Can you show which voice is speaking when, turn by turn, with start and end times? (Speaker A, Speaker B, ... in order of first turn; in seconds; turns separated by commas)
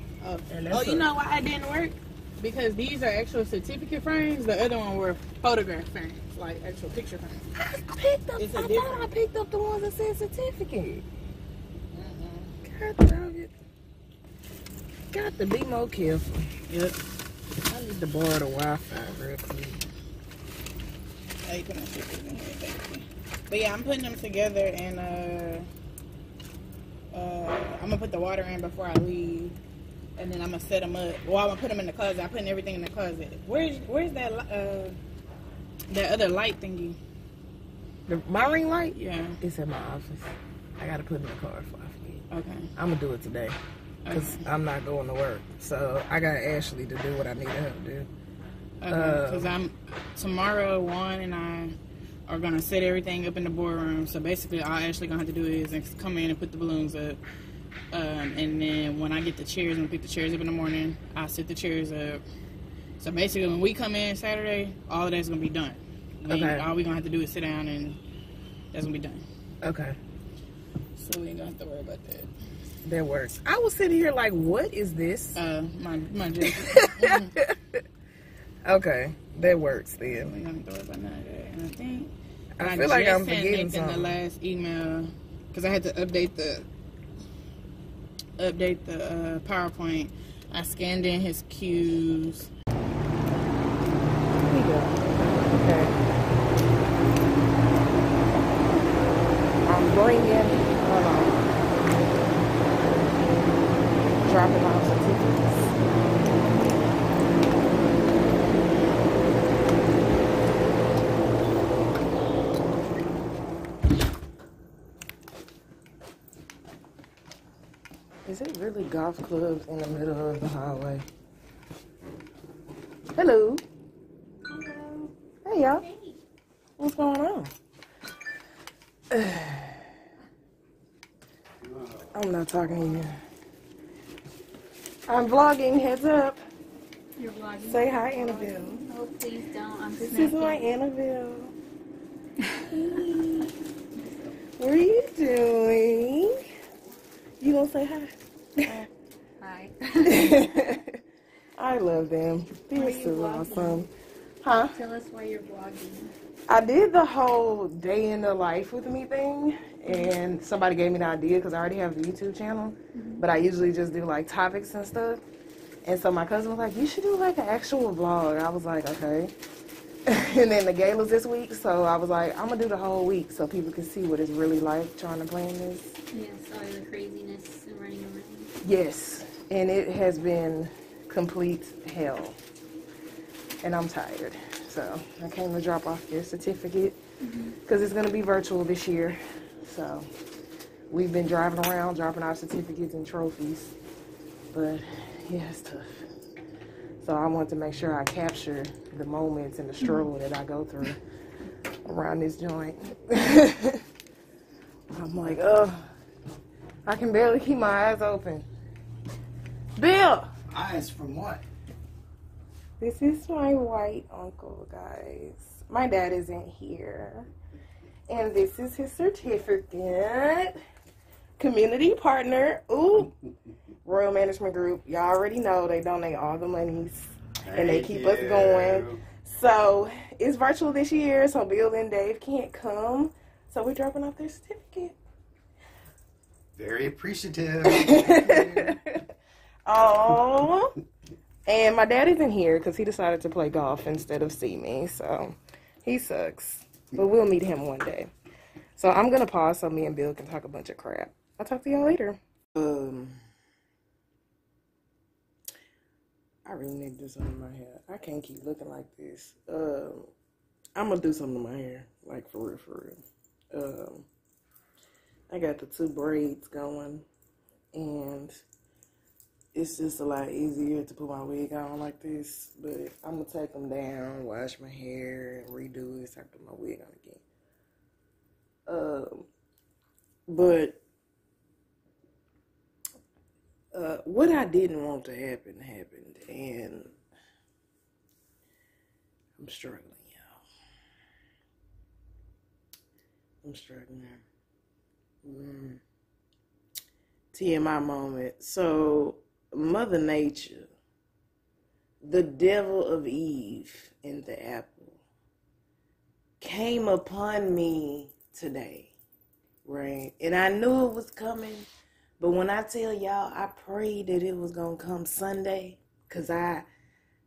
Speaker A: 0.2-7.5, Speaker B: 0.5-1.1, Speaker B: 7.6-11.1, Speaker A: 8.4-9.1, Speaker A: 11.9-12.5, Speaker B: 12.6-13.5, Speaker B: 15.1-16.5, Speaker A: 16.7-17.0, Speaker B: 17.7-19.8, Speaker A: 21.5-25.7, Speaker A: 27.1-29.6, Speaker A: 30.2-35.0, Speaker A: 35.9-37.0, Speaker B: 38.1-42.2, Speaker A: 39.0-39.4, Speaker A: 42.3-42.7, Speaker B: 42.8-43.6, Speaker A: 44.1-44.4, Speaker B: 44.1-48.1, Speaker A: 48.8-51.8, Speaker B: 48.9-49.5, Speaker A: 52.3-57.2, Speaker A: 57.9-62.2, Speaker A: 63.0-68.0, Speaker B: 66.2-66.7, Speaker A: 68.7-69.2, Speaker B: 69.6-70.0, Speaker A: 71.0-72.3, Speaker B: 72.8-75.4, Speaker A: 75.3-77.3, Speaker B: 76.4-77.8, Speaker B: 78.7-80.3, Speaker A: 80.1-86.7, Speaker B: 82.6-84.2, Speaker A: 88.4-92.5, Speaker B: 94.3-96.0, Speaker B: 99.7-101.6, Speaker B: 104.2-105.7, Speaker B: 118.3-121.1, Speaker B: 123.2-123.6, Speaker B: 124.5-124.9, Speaker B: 125.5-125.8, Speaker C: 125.7-126.2, Speaker B: 126.8-127.5, Speaker B: 129.1-129.8, Speaker B: 132.1-133.2, Speaker B: 135.1-136.4, Speaker C: 137.2-140.7, Speaker B: 137.7-138.8, Speaker B: 140.0-141.6, Speaker B: 142.7-143.5, Speaker C: 144.0-144.3, Speaker B: 144.6-146.4, Speaker B: 147.4-148.7, Speaker C: 149.4-150.7, Speaker B: 150.0-151.0, Speaker B: 151.6-153.9, Speaker C: 152.7-153.9, Speaker B: 154.4-154.8, Speaker C: 154.7-156.1, Speaker B: 156.5-165.2, Speaker C: 162.9-163.2, Speaker B: 165.8-169.3, Speaker B: 170.1-176.0, Speaker C: 176.1-178.5, Speaker B: 178.6-182.4, Speaker B: 183.6-187.0, Speaker C: 187.2-187.5, Speaker B: 187.7-190.1, Speaker B: 190.9-193.8, Speaker B: 194.5-195.9, Speaker B: 197.0-201.0, Speaker B: 201.8-203.8, Speaker B: 204.9-205.9, Speaker B: 206.9-208.5, Speaker B: 209.8-210.5, Speaker D: 210.5-211.4, Speaker B: 212.8-217.3, Speaker B: 218.1-220.5, Speaker B: 221.4-223.1, Speaker B: 223.8-234.9, Speaker D: 227.5-229.0, Speaker D: 236.6-238.7, Speaker B: 237.7-239.0, Speaker B: 239.7-240.7, Speaker B: 241.5-248.1, Speaker B: 248.8-253.2, Speaker B: 256.5-260.1, Speaker B: 260.8-263.0, Speaker B: 263.5-264.1, Speaker B: 265.3-267.1, Speaker B: 267.7-268.4, Speaker B: 269.5-277.2, Speaker B: 278.7-279.3, Speaker B: 280.3-280.8, Speaker B: 283.7-286.9, Speaker B: 289.4-290.4, Speaker B: 293.4-294.2, Speaker B: 295.2-295.8, Speaker B: 297.3-300.7, Speaker B: 302.0-305.0, Speaker B: 306.4-308.9, Speaker B: 309.6-311.7, Speaker B: 312.2-316.7